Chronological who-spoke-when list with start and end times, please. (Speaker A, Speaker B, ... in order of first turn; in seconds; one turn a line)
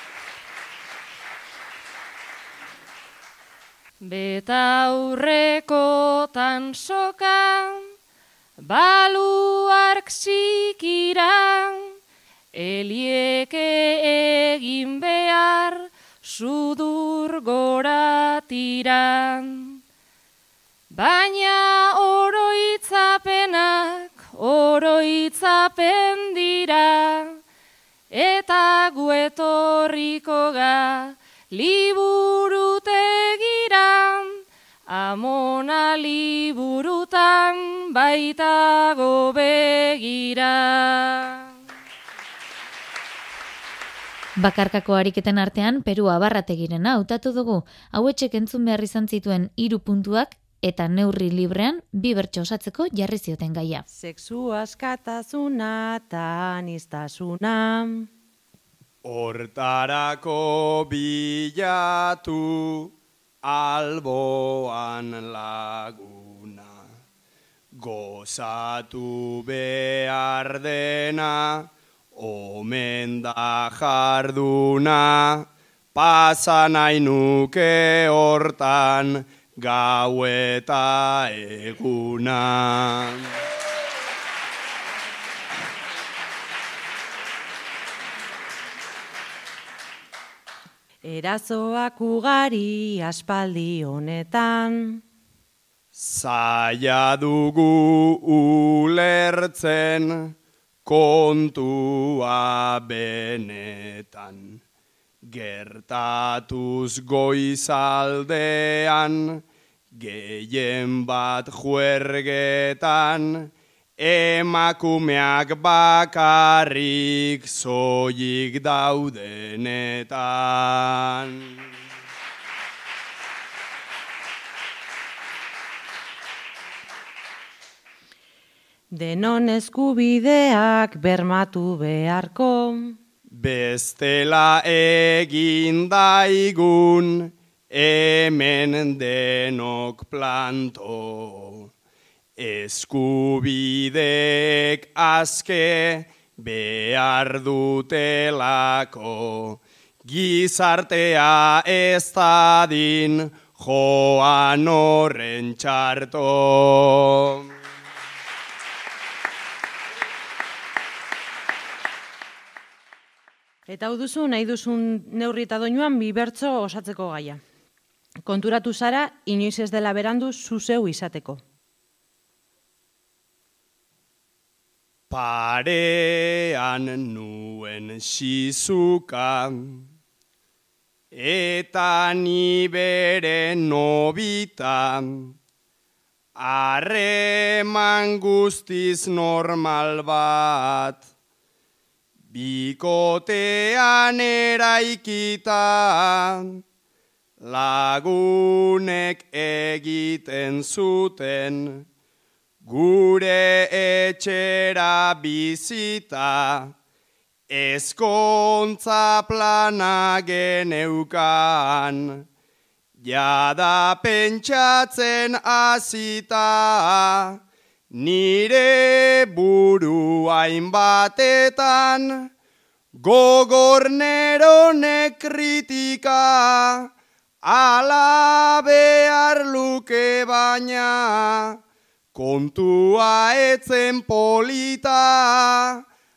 Speaker A: 4.0-7.8
Speaker A: 8.6-11.9
Speaker A: 12.5-19.8
Speaker A: 20.9-27.4
Speaker A: 28.1-34.4
Speaker A: 34.9-41.5
Speaker B: 44.4-53.8
Speaker C: 53.9-58.0
Speaker D: 59.0-66.8
Speaker D: 67.8-83.3
Speaker C: 91.0-95.0
Speaker D: 95.9-100.3
Speaker D: 100.8-104.6
Speaker D: 105.2-109.4
Speaker D: 109.9-121.5
Speaker C: 128.9-132.9
Speaker D: 133.3-141.7
Speaker D: 142.4-157.4
Speaker C: 163.7-167.4
Speaker C: 168.2-171.4
Speaker D: 175.1-179.8
Speaker D: 181.1-185.3
Speaker D: 186.3-191.0
Speaker D: 192.3-196.6
Speaker D: 197.4-201.8
Speaker D: 202.6-206.7
Speaker D: 207.5-212.2
Speaker D: 213.0-217.3
Speaker D: 217.9-222.3
Speaker D: 222.9-226.9
Speaker D: 227.4-231.6
Speaker D: 232.1-235.8